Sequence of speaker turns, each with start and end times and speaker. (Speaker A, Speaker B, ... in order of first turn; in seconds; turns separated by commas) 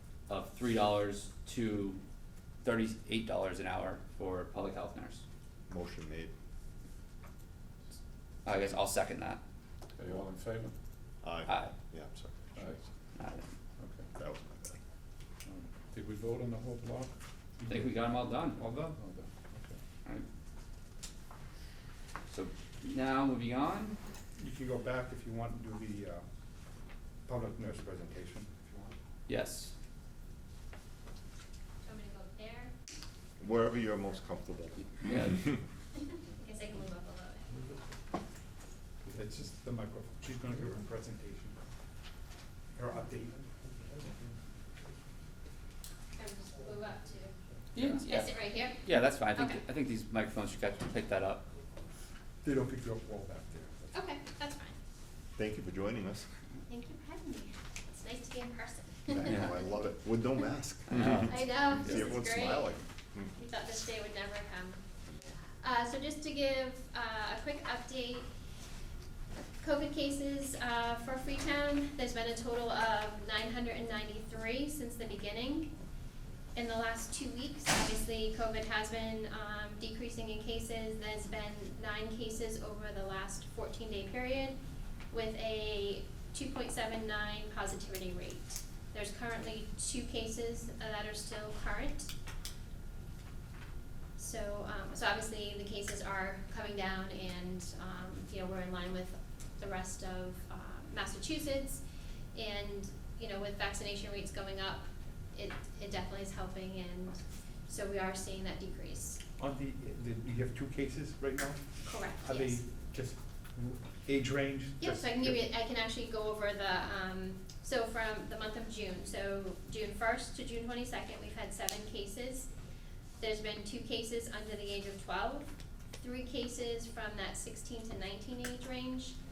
Speaker A: 0.3-2.0, Speaker A: 2.6-5.2, Speaker B: 5.7-6.3, Speaker A: 8.4-9.4, Speaker C: 10.0-10.7, Speaker B: 11.2-12.3, Speaker A: 11.5-11.7, Speaker C: 12.5-12.8, Speaker A: 13.2-13.5, Speaker C: 13.8-14.1, Speaker B: 14.2-14.8, Speaker C: 15.4-17.9, Speaker A: 17.7-18.6, Speaker D: 18.6-19.0, Speaker C: 18.8-19.8, Speaker A: 22.3-24.0, Speaker D: 24.4-26.2, Speaker D: 27.3-28.9, Speaker A: 29.3-29.7, Speaker E: 31.8-32.7, Speaker B: 33.4-35.5, Speaker A: 35.0-35.4, Speaker E: 36.0-37.6, Speaker D: 39.0-41.6, Speaker D: 42.7-43.5, Speaker E: 46.2-47.3, Speaker A: 47.7-51.5, Speaker E: 48.0-49.6, Speaker D: 52.4-53.9, Speaker E: 53.9-54.8, Speaker B: 55.4-56.3, Speaker E: 56.7-59.7, Speaker B: 59.1-63.3, Speaker A: 60.9-61.4, Speaker E: 61.2-62.8, Speaker E: 63.3-64.8, Speaker E: 65.6-68.3, Speaker E: 69.6-75.7, Speaker E: 76.5-84.6, Speaker E: 85.1-92.1, Speaker E: 94.2-101.8, Speaker E: 102.3-109.2, Speaker D: 109.4-115.4, Speaker E: 111.8-112.6, Speaker E: 114.8-122.5, Speaker E: 123.2-129.2